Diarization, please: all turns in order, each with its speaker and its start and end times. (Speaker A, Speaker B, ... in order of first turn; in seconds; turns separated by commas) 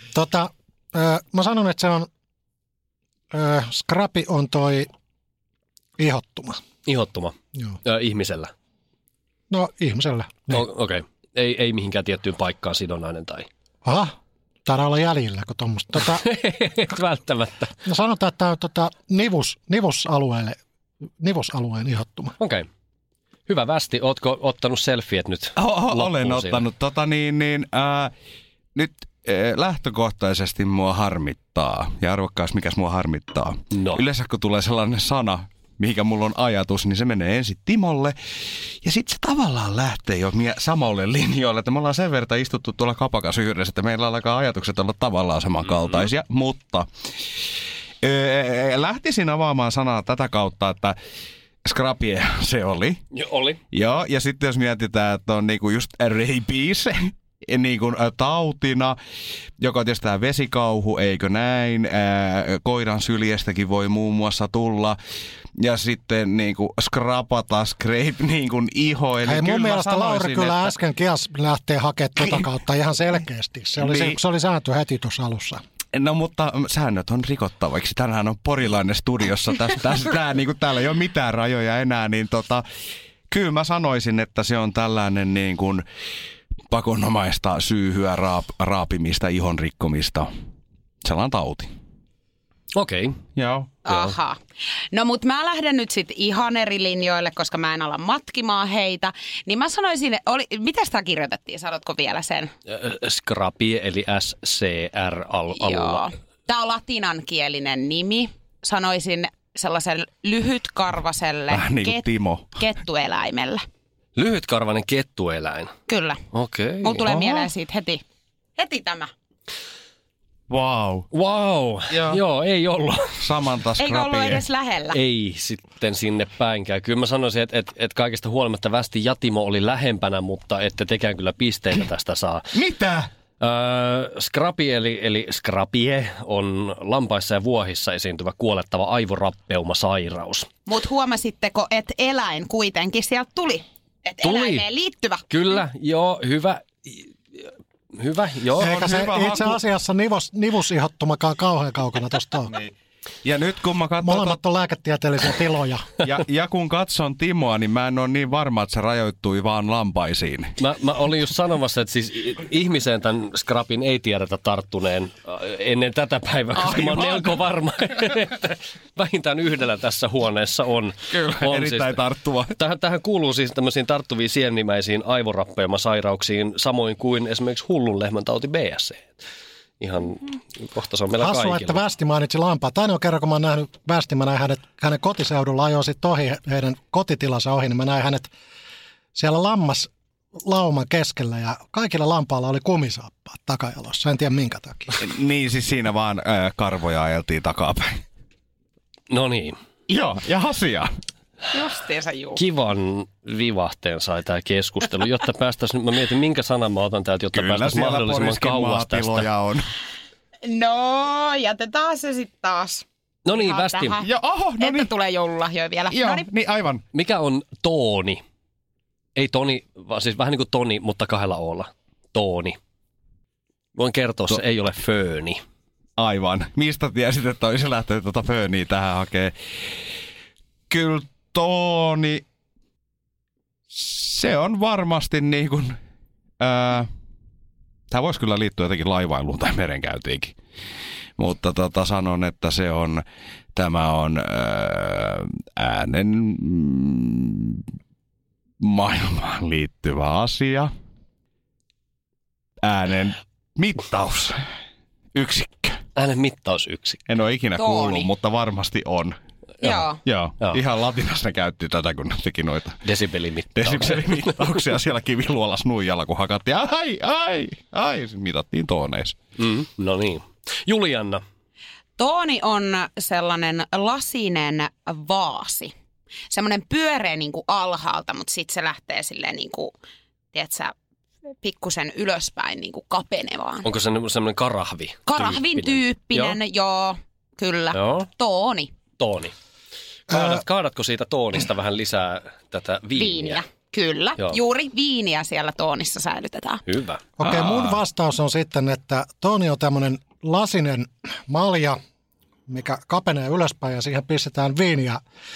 Speaker A: 0.1-2.1, Speaker A: 3.3-4.9, Speaker A: 6.0-6.6, Speaker B: 6.8-8.5, Speaker A: 9.5-10.7, Speaker B: 10.5-13.5, Speaker A: 13.8-14.1, Speaker A: 14.6-16.2, Speaker B: 16.0-17.8, Speaker A: 17.8-20.6, Speaker A: 21.2-22.4, Speaker B: 22.4-22.7, Speaker B: 23.5-26.7, Speaker C: 25.6-28.1, Speaker C: 28.7-46.9, Speaker B: 33.7-34.0, Speaker C: 48.0-51.0, Speaker C: 51.6-53.0, Speaker B: 53.1-53.6, Speaker C: 53.7-59.0, Speaker C: 59.6-65.0, Speaker C: 65.6-70.7, Speaker A: 69.2-75.6, Speaker C: 73.8-74.2, Speaker C: 75.9-82.6, Speaker C: 83.3-85.8, Speaker C: 86.7-90.3, Speaker C: 91.0-91.7, Speaker B: 92.7-93.2, Speaker C: 93.3-93.8, Speaker D: 93.9-94.4, Speaker D: 94.9-102.5, Speaker B: 102.7-106.0, Speaker D: 105.5-112.0, Speaker C: 111.5-112.6, Speaker D: 112.6-113.6, Speaker B: 114.2-115.7, Speaker D: 115.9-116.2, Speaker B: 116.3-117.1, Speaker D: 116.8-118.0, Speaker C: 117.0-117.5, Speaker D: 118.6-119.1, Speaker C: 120.5-121.1, Speaker B: 121.1-123.2, Speaker C: 121.9-122.2, Speaker C: 123.2-124.5, Speaker D: 123.8-125.0, Speaker B: 124.9-132.5, Speaker C: 132.5-133.1, Speaker B: 133.4-140.5, Speaker D: 140.7-145.2, Speaker B: 144.2-144.7, Speaker B: 145.3-148.8, Speaker C: 148.6-149.6, Speaker A: 148.6-152.5, Speaker C: 152.5-154.4, Speaker A: 154.0-155.9, Speaker C: 156.0-160.5, Speaker B: 160.6-172.0, Speaker C: 166.6-167.3, Speaker C: 171.1-172.6, Speaker B: 172.6-179.2, Speaker B: 179.8-181.8, Speaker A: 181.1-188.3, Speaker A: 189.1-189.9, Speaker A: 190.4-195.0, Speaker C: 195.0-198.0, Speaker B: 199.1-199.6, Speaker C: 199.9-200.9, Speaker D: 201.5-202.4, Speaker B: 202.3-209.3, Speaker C: 207.3-209.7, Speaker D: 210.4-214.1, Speaker B: 213.2-214.0, Speaker C: 214.0-214.9, Speaker D: 214.6-216.2, Speaker C: 215.9-216.8, Speaker B: 216.9-218.2, Speaker B: 219.1-222.6, Speaker B: 223.7-225.4, Speaker C: 226.0-229.3, Speaker C: 230.7-232.2, Speaker C: 233.7-235.8, Speaker C: 236.4-236.9, Speaker C: 237.9-240.3, Speaker C: 241.2-243.0, Speaker C: 243.5-247.7, Speaker C: 248.6-250.7, Speaker C: 252.6-254.4, Speaker C: 255.1-255.8, Speaker B: 255.9-257.0, Speaker C: 257.1-262.8, Speaker D: 257.6-258.1, Speaker D: 259.6-260.0, Speaker B: 262.8-264.4, Speaker C: 263.5-269.2, Speaker B: 269.4-271.2, Speaker D: 272.0-275.7, Speaker D: 276.3-279.7, Speaker D: 280.3-280.7, Speaker D: 281.4-283.6, Speaker B: 283.6-286.4, Speaker D: 285.1-288.7, Speaker B: 287.7-288.1, Speaker B: 289.0-289.3, Speaker B: 290.1-293.4, Speaker A: 290.1-290.4, Speaker D: 292.9-296.6, Speaker B: 296.6-297.0, Speaker A: 297.2-301.8, Speaker C: 297.2-297.8, Speaker A: 302.5-305.0